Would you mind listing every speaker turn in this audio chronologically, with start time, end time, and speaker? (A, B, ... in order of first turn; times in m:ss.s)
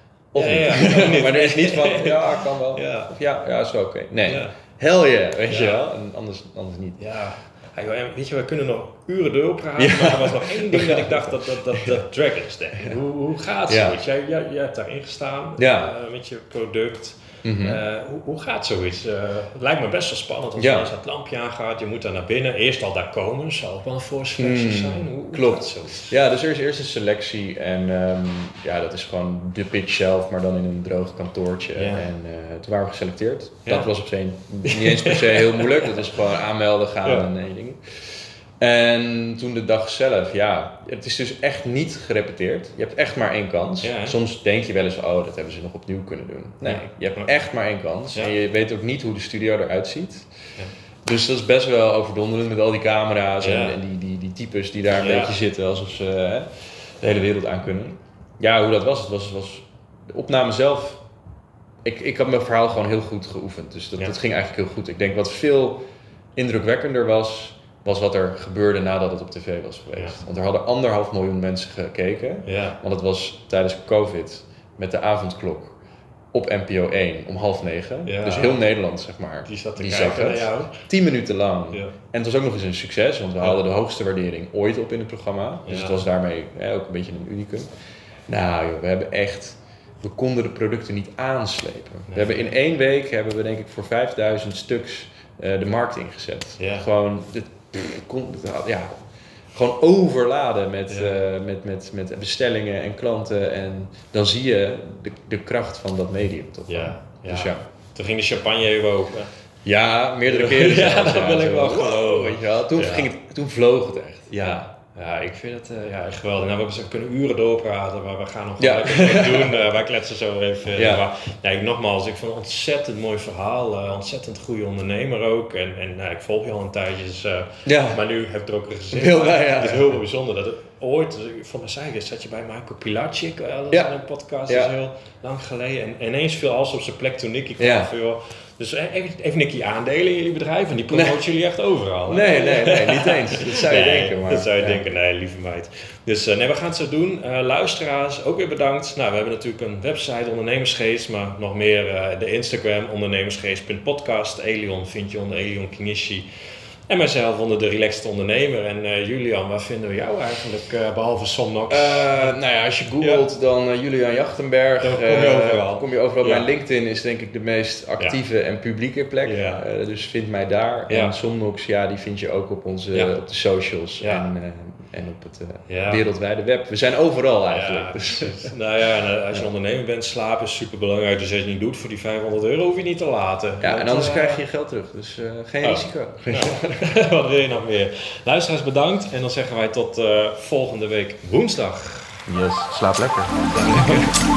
0:00.3-0:07.0 A
0:00.4-0:03.1 B
0:04.3-0:04.6 B
0:05.5-0:05.8 B
0:07.0-0:26.1 B
0:09.8-0:12.0 A
0:13.7-0:14.0 A
0:15.6-0:15.9 A
0:17.4-0:17.8 A
0:20.6-0:20.9 A
0:24.4-0:37.8 A
0:31.8-0:32.1 B
0:34.7-0:36.1 B
0:38.6-0:50.3 A
0:43.8-0:44.2 B
0:46.6-0:47.3 B
0:51.0-1:01.0 A
0:53.4-0:53.8 B
0:54.9-0:55.4 B
1:01.8-1:05.8 A
1:06.4-1:15.8 A
1:10.0-1:10.2 B
1:12.4-1:12.8 B
1:16.3-1:27.7 A
1:18.0-1:18.7 B
1:19.4-1:20.8 B
1:25.7-1:26.0 B
1:28.3-1:39.0 A
1:32.1-1:32.4 B
1:36.6-1:36.9 B
1:39.5-1:47.6 A
1:40.9-1:41.2 B
1:46.7-1:49.3 B
1:49.6-1:54.7 A
1:50.3-1:53.1 B
1:54.3-2:36.3 B
1:58.6-1:59.6 A
2:00.8-2:01.1 A
2:07.6-2:08.0 A
2:08.9-2:10.0 A
2:14.5-2:14.7 A
2:17.6-2:17.9 A
2:20.9-2:21.2 A
2:22.1-2:24.8 A
2:36.9-2:42.4 B
2:41.7-2:58.5 A
2:43.0-2:43.3 B
2:44.8-2:46.5 B
2:49.2-2:49.6 B
2:50.9-2:51.2 B
2:54.0-2:54.3 B
2:55.7-2:56.0 B
2:57.5-3:04.4 B
3:03.6-3:07.0 A
3:05.6-3:12.2 B
3:12.3-3:14.1 A
3:13.5-3:14.1 B